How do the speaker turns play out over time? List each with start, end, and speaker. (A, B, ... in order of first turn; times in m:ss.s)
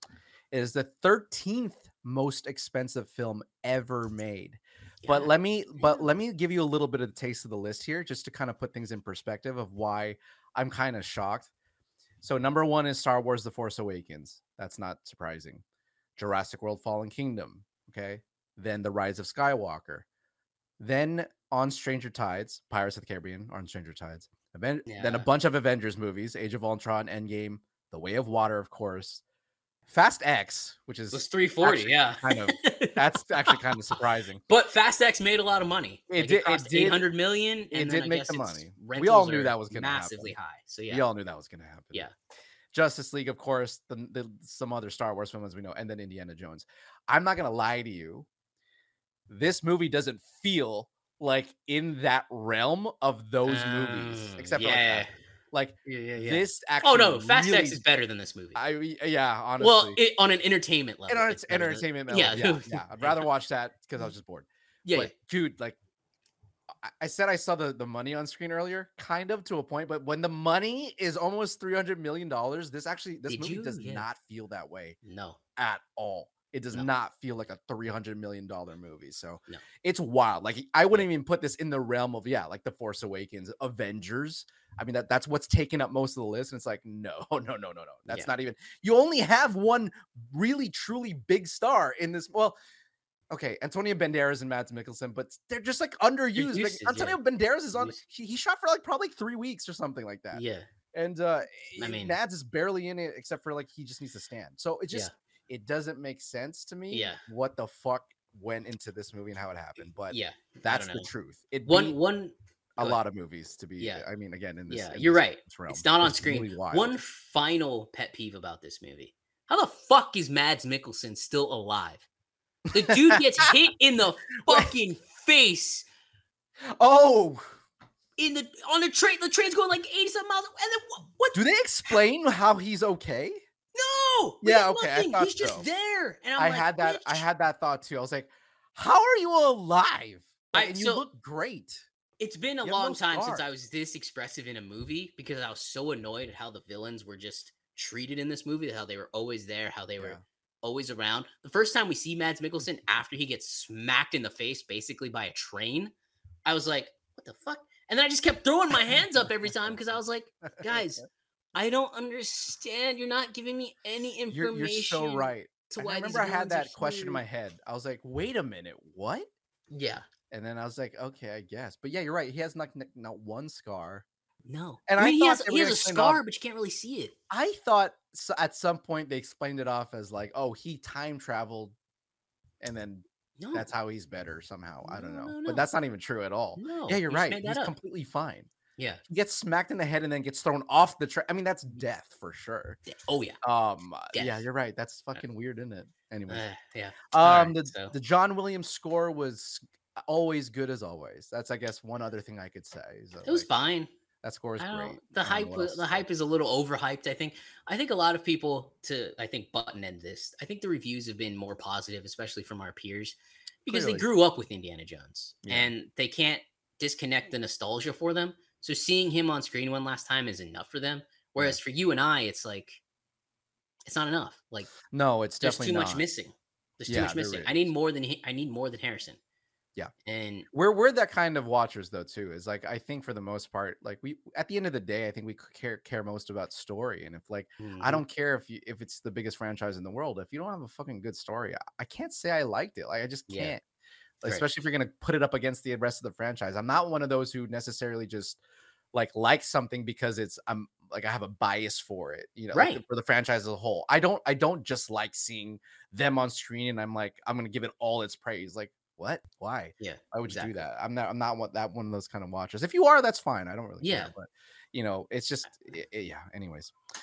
0:00.5-0:11.5 A
0:05.0-0:06.0 B
0:12.2-0:15.6 A
0:16.2-0:20.0 A
0:20.8-0:29.2 A
0:24.9-0:25.3 B
0:29.9-0:34.4 A
0:31.1-0:41.0 B
0:36.1-0:37.0 A
0:37.7-0:40.3 A
0:40.9-0:42.1 A
0:42.7-0:48.3 A
0:49.3-0:57.8 A
0:53.4-0:55.1 B
0:55.8-0:58.6 B
0:58.5-1:00.0 A
0:59.6-1:03.3 B
1:01.1-1:05.8 A
1:04.8-1:05.1 B
1:06.8-1:15.0 A
1:13.3-1:14.0 B
1:15.0-1:15.4 B
1:15.6-1:32.6 A
1:33.3-1:40.4 A
1:36.4-1:37.2 B
1:37.7-1:38.0 B
1:40.3-1:40.7 B
1:40.9-1:52.0 A
1:41.8-1:42.2 B
1:46.9-1:47.2 B
1:50.1-1:51.1 B
1:51.7-1:53.0 B
1:52.8-1:57.0 A
1:54.7-2:02.0 B
2:02.7-2:03.4 A
2:02.7-2:05.8 B
2:04.5-2:04.7 A
2:06.6-2:07.5 A
2:08.2-2:12.0 B
2:11.3-2:13.4 A
2:13.7-2:17.2 B
2:14.4-2:15.6 A
2:16.4-2:21.9 A
2:20.5-2:21.0 B
2:22.2-2:35.9 B
2:22.6-2:23.4 A
2:36.4-2:41.0 B
2:38.9-2:41.0 A
2:41.5-2:47.2 B
2:44.3-2:49.3 A
2:49.7-2:50.0 B
2:50.3-2:54.0 A
2:54.4-2:57.1 B
2:54.9-2:56.2 A
2:57.3-3:01.7 A
3:02.6-3:08.5 A
3:03.4-3:03.7 B
3:04.8-3:05.7 B
3:06.6-3:07.7 B
3:08.8-3:09.0 B
3:09.1-3:12.8 A
3:12.9-3:13.4 B
3:13.4-3:16.4 A
3:14.1-3:14.4 B
3:16.3-3:17.9 B
3:17.1-3:23.5 A
3:23.2-3:23.9 B
3:24.2-3:26.0 A
3:24.6-3:42.8 B
3:33.7-3:34.0 A
3:35.4-3:35.7 A
3:43.8-3:44.7 B
3:44.8-3:46.0 A
3:45.4-3:49.2 B
3:46.9-3:47.5 A
3:50.0-3:50.5 B
3:50.5-4:03.6 A
3:57.6-3:58.0 B
4:03.3-4:03.5 B
4:04.2-4:08.4 A
4:08.9-4:26.7 A
4:12.5-4:12.8 B
4:19.8-4:20.6 B
4:23.8-4:24.1 B